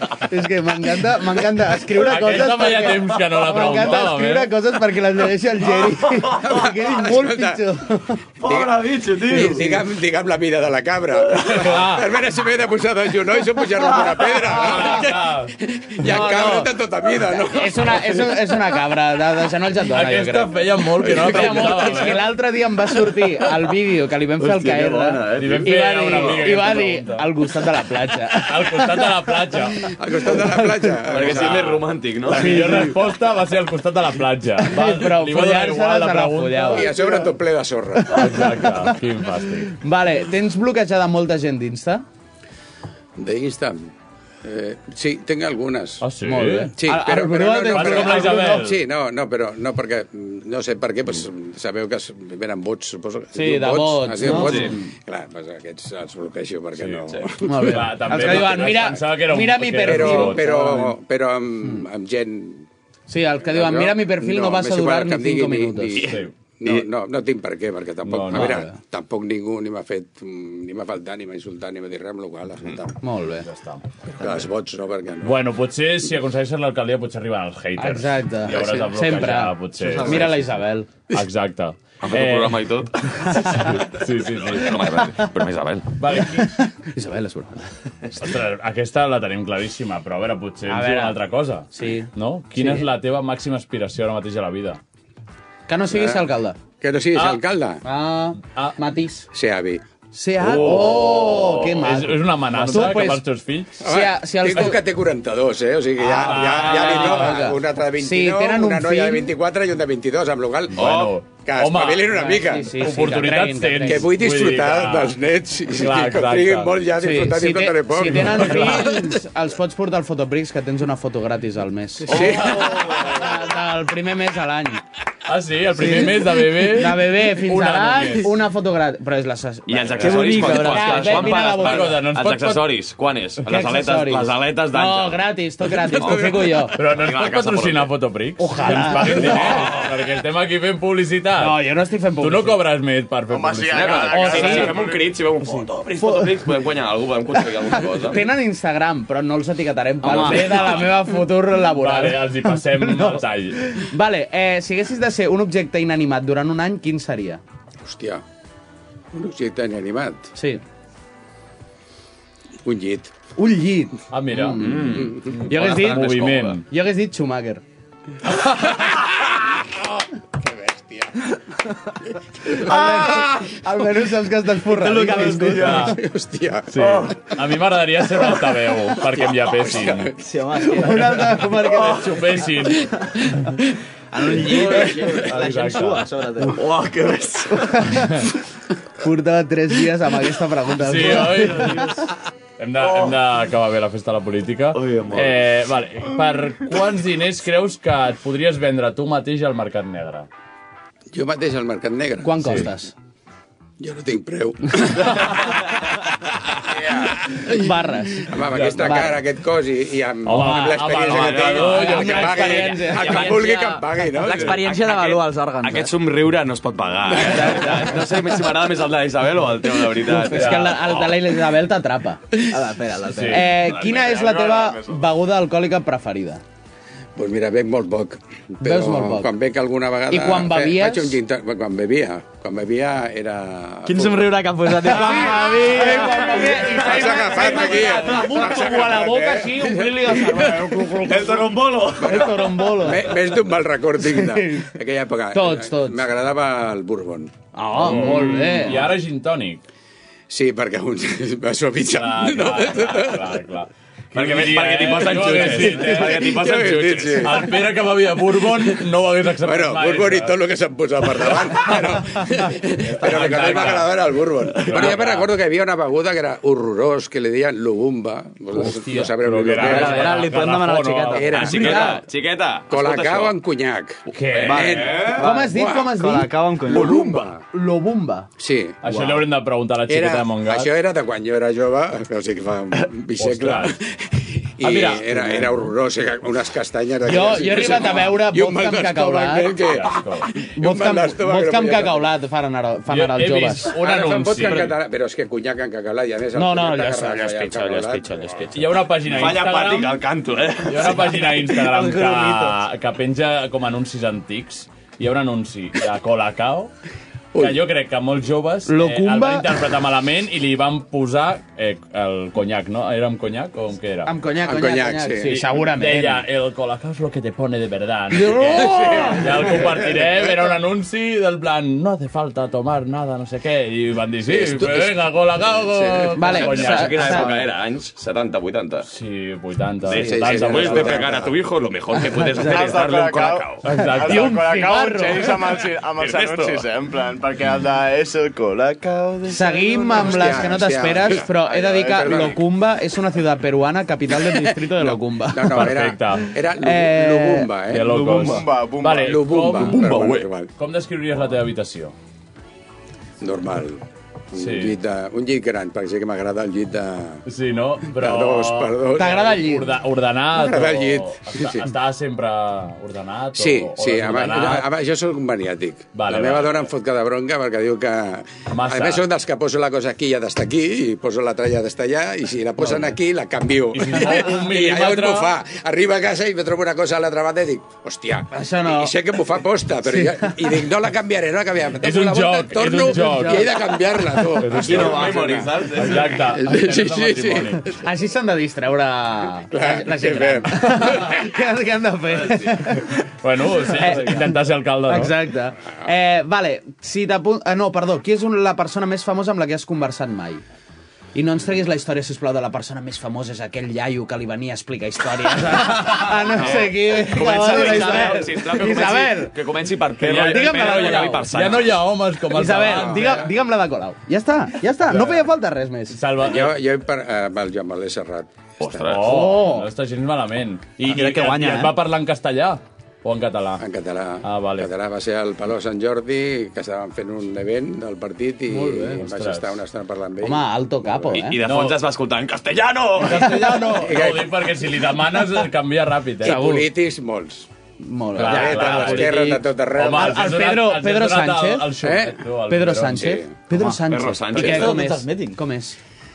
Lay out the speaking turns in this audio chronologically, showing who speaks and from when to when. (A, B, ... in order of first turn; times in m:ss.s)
0:00.3-0:08.2 A
0:02.0-0:04.5 B
0:06.4-0:07.6 C
0:08.4-0:09.7 D
0:08.4-0:18.4 C
0:09.4-0:09.7 A
0:11.6-0:12.0 B
0:14.5-0:15.6 B
0:16.0-0:16.7 A
0:17.5-0:20.5 A
0:19.9-0:22.3 B
0:21.0-0:22.1 C
0:21.0-0:28.9 A
0:24.4-0:26.5 D
0:25.4-0:27.3 B
0:28.4-0:29.9 B
0:29.9-0:31.8 C
0:30.3-0:31.0 A
0:31.1-0:32.9 D
0:31.2-0:36.9 B
0:32.4-0:32.9 A
0:34.6-0:37.3 A
0:36.7-0:38.6 C
0:38.1-0:39.8 B
0:38.2-0:38.7 A
0:39.8-0:42.0 A
0:43.2-0:43.9 C
0:44.4-0:46.1 C
0:46.0-0:46.7 B
0:46.2-0:48.6 A
0:46.8-0:58.8 C
0:47.7-0:48.8 B
0:53.4-0:54.9 A
0:54.3-0:54.8 D
0:56.8-0:57.1 B
0:57.4-1:01.0 A
0:57.6-1:00.5 B
0:59.8-1:02.7 C
1:03.1-1:06.0 A
1:03.4-1:13.0 C
1:05.9-1:06.3 B
1:08.0-1:08.6 B
1:08.3-1:08.8 A
1:13.0-1:13.5 A
1:13.4-1:13.8 B
1:14.2-1:15.4 C
1:15.2-1:20.4 B
1:17.8-1:20.9 A
1:18.5-1:18.8 C
1:20.0-1:20.2 E
1:21.1-1:22.7 B
1:22.0-1:23.7 D
1:23.3-1:25.0 B
1:24.4-1:26.0 D
1:26.0-1:26.6 B
1:26.4-1:27.7 A
1:28.2-1:34.8 B
1:30.7-1:31.2 A
1:31.7-1:32.9 A
1:35.7-1:36.6 A
1:35.9-1:36.3 C
1:36.8-1:37.8 C
1:37.2-1:37.4 B
1:37.8-1:39.3 A
1:38.4-1:38.8 B
1:39.3-1:39.8 C
1:40.1-1:43.2 A
1:40.4-1:43.8 B
1:43.8-1:44.8 A
1:43.8-1:52.8 C
1:46.0-1:49.3 A
1:46.1-1:47.5 B
1:50.7-1:55.2 B
1:50.8-1:51.1 D
1:52.1-1:54.1 A
1:53.8-1:59.2 C
1:55.7-1:56.7 B
1:57.0-2:04.8 A
1:58.1-1:58.9 B
2:02.1-2:03.1 C
2:02.1-2:03.0 B
2:05.3-2:08.3 B
2:06.6-2:12.0 A
2:09.7-2:17.9 D
2:10.0-2:11.5 E
2:11.5-2:12.7 B
2:13.5-2:16.8 A
2:16.7-2:21.6 B
2:18.4-2:19.7 A
2:19.2-2:19.9 D
2:21.4-2:22.6 A
2:22.2-2:24.7 B
2:23.3-2:25.1 F
2:23.7-2:28.2 D
2:24.1-2:24.8 A
2:25.4-2:26.2 A
2:28.0-2:37.4 A
2:30.0-2:30.7 E
2:30.2-2:30.8 B
2:31.6-2:33.8 B
2:37.8-2:38.2 C
2:39.1-2:40.3 C
2:40.4-2:40.6 A
2:42.6-2:43.1 C
2:43.4-2:47.6 A
2:44.1-2:46.6 B
2:44.5-2:46.6 D
2:49.6-2:51.4 C
2:52.5-2:55.9 A
2:52.6-2:53.0 C
2:54.7-2:55.9 E
2:55.6-2:56.0 B
2:55.7-2:57.1 C
2:56.7-3:00.1 B
2:59.0-3:00.6 C
3:00.2-3:01.3 E
3:00.8-3:02.4 A
3:01.7-3:02.9 B
3:04.1-3:06.6 E
3:04.5-3:05.0 D
3:05.2-3:06.1 B
3:06.4-3:07.9 D
3:07.8-3:08.2 A
3:09.0-3:11.9 A
3:10.8-3:12.0 B
3:12.6-3:20.3 B
3:14.7-3:15.4 D
3:21.1-3:22.7 C
3:22.2-3:22.9 A
3:22.4-3:22.7 B
3:23.8-3:25.6 C
3:26.8-3:27.5 C
3:27.4-3:29.1 A
3:28.2-3:34.7 C
3:28.5-3:29.0 B
3:30.3-3:32.7 B
3:30.4-3:30.7 A
3:31.3-3:33.6 A
3:32.9-3:35.9 E
3:34.3-3:41.2 D
3:37.2-3:38.0 E
3:40.1-3:42.2 A
3:40.3-3:40.8 B
3:42.5-3:43.5 E
3:43.1-3:43.5 B
3:43.3-3:46.4 A
3:43.6-3:45.1 F
3:47.2-3:54.4 C
3:48.6-3:49.3 A
3:50.1-3:51.2 A
3:53.9-3:56.3 E
3:54.8-4:03.2 A
3:55.7-4:00.9 C
4:01.1-4:02.2 D
4:01.3-4:01.9 E
4:01.9-4:08.3 C
4:04.0-4:04.7 A
4:05.3-4:06.0 A
4:07.5-4:08.8 A
4:07.8-4:09.6 B
4:10.3-4:13.4 C
4:11.9-4:16.4 B
4:14.1-4:17.5 D
4:15.4-4:17.6 C
4:17.1-4:20.4 B
4:19.4-4:30.3 C
4:22.8-4:23.9 B
4:23.0-4:23.8 D
4:24.6-4:25.0 D
4:24.6-4:25.3 B
4:28.6-4:31.9 B
4:29.6-4:31.4 E
4:31.1-4:32.0 C
4:31.3-4:33.4 D
4:31.5-4:32.0 A
4:32.7-4:35.9 C
4:34.2-4:34.8 B
4:34.3-4:35.3 D
4:34.5-4:37.0 E
4:35.2-4:38.3 A
4:36.7-4:37.4 C
4:38.4-4:38.8 C
4:38.8-4:40.7 B
4:38.9-4:39.2 E
4:39.9-4:52.1 C
4:43.2-4:43.8 B
4:44.6-4:45.7 B
4:47.1-4:49.6 A
4:49.6-4:50.3 B
4:50.6-4:53.7 A
4:52.9-4:54.8 B
4:53.8-4:58.6 C
4:56.4-4:58.6 A
4:58.5-5:00.0 B
4:59.1-5:01.3 D
5:00.7-5:06.7 B
5:00.9-5:02.6 E
5:07.3-5:07.6 C
5:07.4-5:14.1 B
5:08.7-5:09.5 A
5:14.1-5:16.2 A
5:14.4-5:15.4 C
5:15.2-5:27.4 B
5:18.2-5:19.2 A
5:18.6-5:20.2 C
5:24.3-5:24.9 C
5:25.5-5:26.4 C
5:26.2-5:27.3 A
5:26.3-5:28.9 D
5:28.9-5:31.1 B
5:29.9-5:33.6 D
5:29.9-5:31.4 C
5:32.4-5:42.4 F
5:33.6-5:34.5 B
5:33.7-5:35.3 A
5:36.0-5:36.6 D
5:39.3-5:45.7 A
5:40.0-5:41.3 C
5:41.9-5:42.4 C
5:45.3-5:48.0 C
5:45.5-5:46.3 B
5:46.6-5:47.5 A
5:47.7-5:49.9 B
5:47.8-5:49.2 F
5:49.0-5:50.5 C
5:49.7-5:50.3 D
5:50.6-5:51.9 B
5:53.2-5:57.2 C
5:54.4-5:54.8 B
5:57.3-6:04.7 B
5:57.9-5:59.4 C
5:59.0-5:59.7 A
6:00.3-6:01.7 C
6:03.4-6:27.7 C
6:06.0-6:06.7 B
6:08.5-6:09.0 B
6:13.7-6:15.3 B
6:18.3-6:18.9 A
6:19.8-6:20.5 A
6:21.8-6:23.5 B
6:22.8-6:23.4 A
6:24.4-6:27.6 B
6:24.6-6:26.2 D
6:27.7-6:33.0 A
6:29.5-6:31.2 C
6:32.2-6:32.5 D
6:33.2-6:35.2 B
6:33.7-6:34.4 A
6:34.9-6:40.4 A
6:41.1-6:49.4 A
6:46.4-6:51.8 D
6:50.0-6:53.2 B
6:50.1-6:51.3 A
6:52.3-6:56.0 A
6:52.6-6:53.3 C
6:54.9-6:55.2 B
6:55.9-6:56.6 B
6:56.2-6:59.0 C
6:58.6-6:59.2 D
6:58.8-7:03.6 B
6:59.0-6:59.7 A
7:00.8-7:01.7 E
7:03.6-7:11.3 C
7:04.2-7:04.7 B
7:08.5-7:09.0 A
7:09.0-7:09.6 B
7:10.2-7:11.4 A
7:11.1-7:13.5 D
7:11.4-7:11.8 B
7:13.0-7:16.4 B
7:13.2-7:13.8 A
7:13.7-7:14.5 C
7:16.2-7:17.5 C
7:16.2-7:16.7 A
7:17.8-7:21.7 A
7:18.2-7:20.3 C
7:18.2-7:23.1 B
7:21.8-7:22.2 C
7:22.5-7:25.8 A
7:22.9-7:23.3 C
7:23.5-7:23.8 E
7:23.9-7:24.8 D
7:24.3-7:25.4 E